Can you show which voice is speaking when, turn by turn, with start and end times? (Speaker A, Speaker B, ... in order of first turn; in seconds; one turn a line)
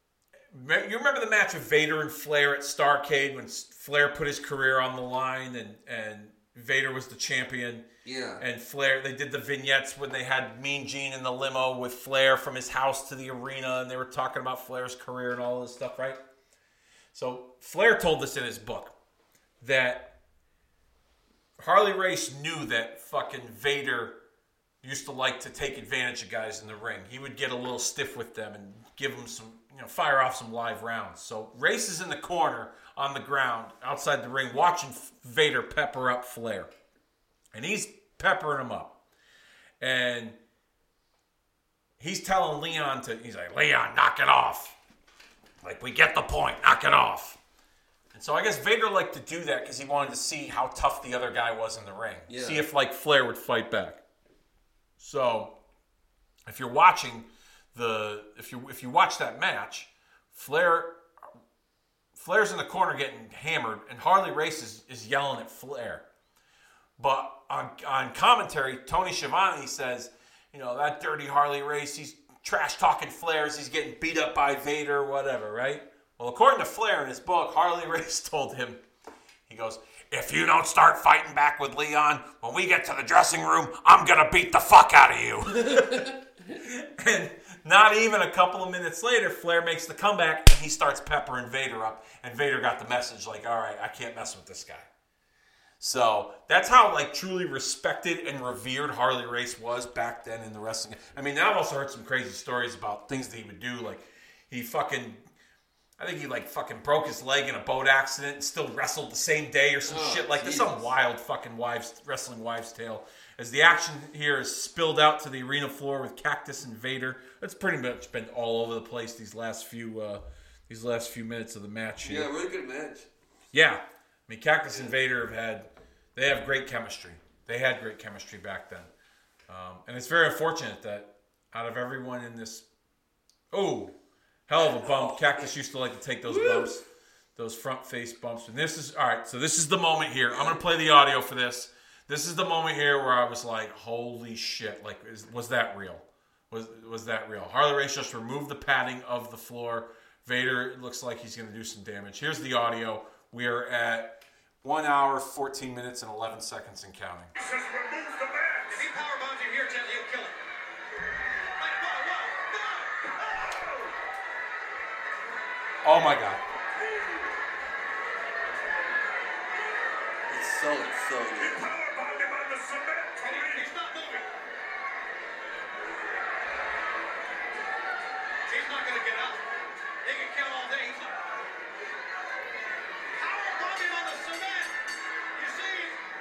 Speaker A: 0.5-7.9
Speaker B: 8.1-8.4
Speaker A: 8.4-16.2
Speaker A: 17.1-18.9
Speaker A: 19.6-20.2
Speaker A: 21.6-24.2
Speaker A: 24.8-36.7
Speaker A: 37.5-39.0
Speaker A: 39.8-40.4
Speaker A: 42.0-44.8
Speaker A: 45.6-47.4
Speaker A: 48.1-54.0
Speaker B: 52.3-52.6
Speaker A: 55.0-55.6
Speaker A: 56.5-61.0
Speaker A: 62.1-66.1
Speaker A: 67.0-78.8
Speaker A: 79.5-94.9
Speaker B: 85.7-86.0
Speaker A: 95.8-105.2
Speaker A: 106.0-122.3
Speaker B: 109.9-110.9
Speaker B: 122.0-123.1
Speaker A: 123.5-128.9
Speaker A: 129.5-132.7
Speaker A: 133.5-133.9
Speaker A: 134.5-136.8
Speaker B: 134.5-135.5
Speaker B: 136.3-136.8
Speaker A: 137.4-157.3
Speaker B: 140.3-140.6
Speaker C: 157.3-158.8
Speaker D: 158.7-160.3
Speaker D: 161.6-163.1
Speaker C: 163.2-163.9
Speaker A: 165.8-166.4
Speaker C: 166.8-167.3
Speaker B: 170.3-171.7
Speaker C: 171.4-173.7
Speaker D: 173.2-174.3
Speaker D: 178.5-179.4
Speaker D: 180.0-181.1
Speaker D: 183.1-184.8
Speaker D: 185.3-186.0